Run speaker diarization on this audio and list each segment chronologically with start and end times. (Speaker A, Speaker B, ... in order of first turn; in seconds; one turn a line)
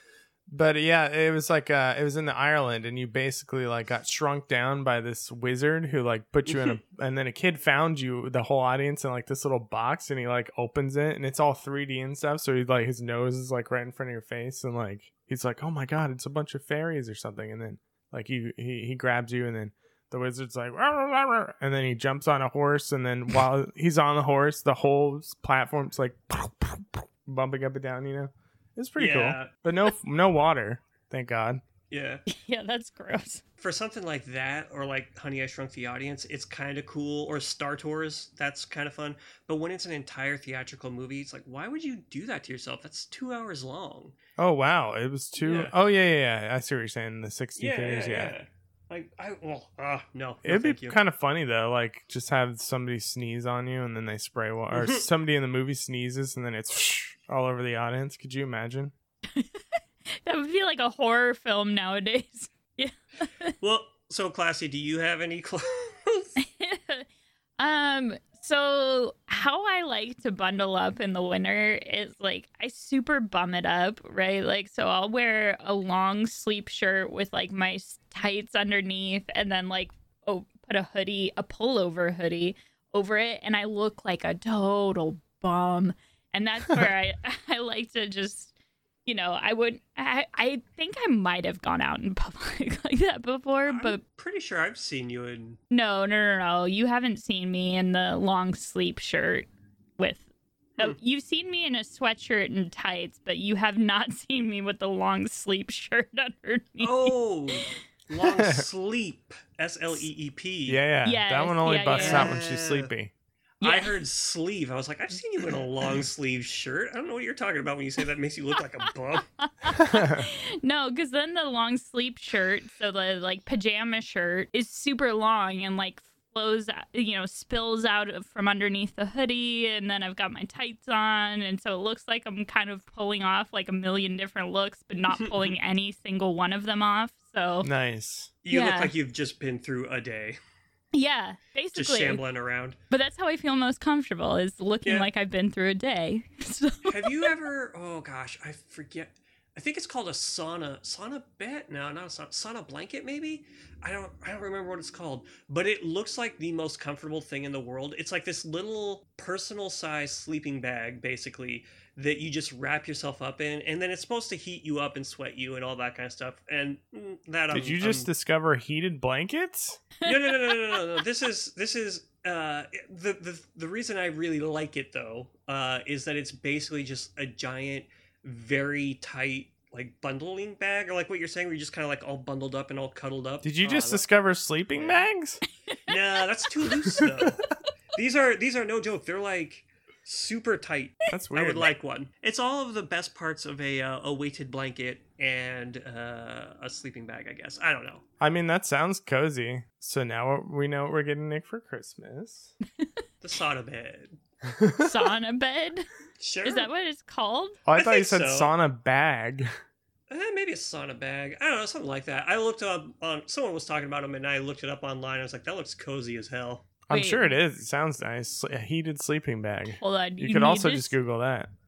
Speaker A: 0.5-31.6
Speaker B: 6.5-6.8
Speaker B: 29.0-29.5
Speaker B: 31.9-32.2
Speaker C: 32.3-33.4
Speaker B: 33.6-44.1
Speaker A: 44.4-48.3
Speaker B: 45.4-45.7
Speaker B: 47.6-51.0
Speaker A: 50.4-58.9
Speaker B: 54.7-55.0
Speaker C: 59.3-63.5
Speaker B: 63.6-66.3
Speaker C: 66.4-67.0
Speaker C: 67.6-88.5
Speaker C: 89.0-94.0
Speaker B: 93.7-95.6
Speaker C: 95.7-99.5
Speaker C: 100.0-100.2
Speaker C: 100.8-107.7
Speaker B: 106.8-110.8
Speaker A: 108.2-108.7
Speaker A: 110.7-113.1
Speaker C: 111.0-112.3
Speaker B: 111.9-112.9
Speaker B: 113.6-119.2
Speaker C: 113.6-114.0
Speaker C: 119.4-137.7
Speaker A: 119.8-120.3
Speaker B: 135.2-135.5
Speaker A: 137.6-138.3
Speaker B: 138.4-140.4
Speaker C: 138.5-138.9
Speaker C: 140.9-142.2
Speaker B: 141.7-142.8
Speaker C: 142.9-147.3
Speaker B: 146.8-168.1
Speaker A: 167.5-169.8
Speaker C: 170.0-170.5
Speaker B: 170.0-184.0
Speaker A: 183.4-185.4
Speaker B: 184.7-185.0
Speaker B: 185.9-198.0
Speaker A: 186.9-187.3
Speaker A: 191.1-191.7
Speaker A: 198.2-202.5
Speaker B: 203.2-204.2
Speaker A: 204.4-204.9
Speaker C: 204.8-205.8
Speaker B: 206.2-206.7
Speaker C: 206.4-207.6
Speaker A: 207.7-209.5
Speaker B: 207.7-208.5
Speaker B: 210.1-216.7
Speaker A: 216.9-221.5
Speaker C: 216.9-217.3
Speaker C: 219.8-220.9